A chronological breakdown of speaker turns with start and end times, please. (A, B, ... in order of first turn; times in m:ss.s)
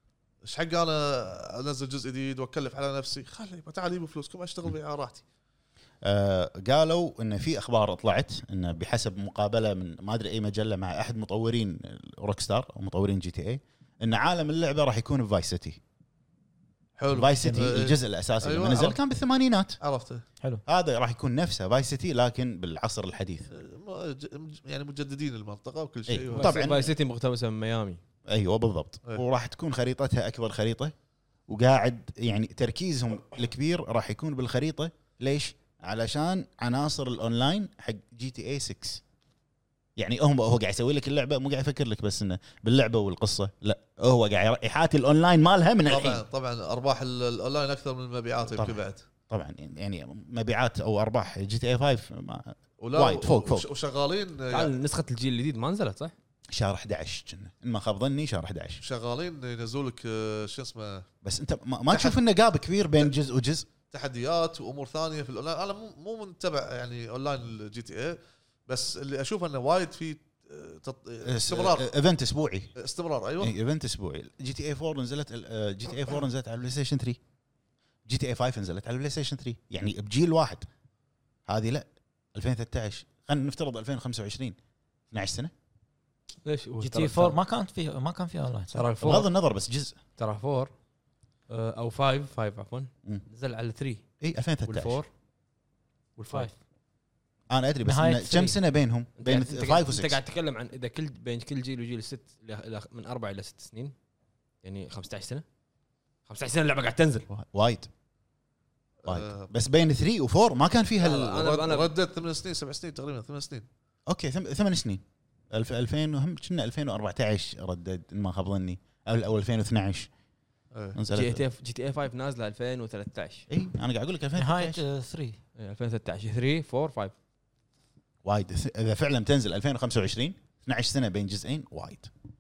0:00.4-0:05.2 A
0:06.0-0:15.8 B
0:17.0-0:19.0 A
0:17.1-0:19.8 B
0:17.4-0:17.7 C
0:19.8-0:20.2 A
0:20.7-0:23.5 B
0:23.5-0:26.6 A
0:26.1-0:26.9 B
0:26.3-0:28.0 D
0:28.3-0:30.9 B
0:31.5-0:39.0 B
0:40.0-0:46.2 B
0:45.9-0:49.0 A
0:48.5-0:53.7 B
0:52.8-0:54.7 A
0:54.5-0:56.1 D
0:56.5-0:58.8 B
0:58.8-1:01.1 A
1:01.2-1:03.7 B
1:01.9-1:02.2 A
1:03.9-1:11.9 A
1:11.2-1:12.7 B
1:12.8-1:13.6 A
1:13.4-1:17.2 B
1:18.1-1:20.7 B
1:21.5-1:24.6 B
1:25.1-1:25.5 B
1:26.4-1:27.4 D
1:26.8-1:28.9 C
1:28.7-1:29.3 D
1:29.0-1:30.0 B
1:30.2-1:30.7 D
1:31.5-1:34.0 D
1:34.2-1:35.0 B
1:34.7-1:35.1 D
1:36.2-1:36.5 D
1:37.5-1:40.2 B
1:37.8-1:38.6 C
1:39.2-1:43.9 D
1:44.6-1:45.4 D
1:46.3-1:47.3 D
1:47.3-1:47.9 B
1:49.0-1:49.5 A
1:49.0-1:51.4 B
1:51.0-1:51.9 D
1:51.0-1:53.7 A
1:54.1-2:00.1 B
2:00.7-2:01.0 A
2:01.0-2:01.4 B
2:01.1-2:03.5 D
2:03.5-2:04.8 B
2:04.4-2:05.4 C
2:05.6-2:07.1 D
2:08.2-2:12.1 B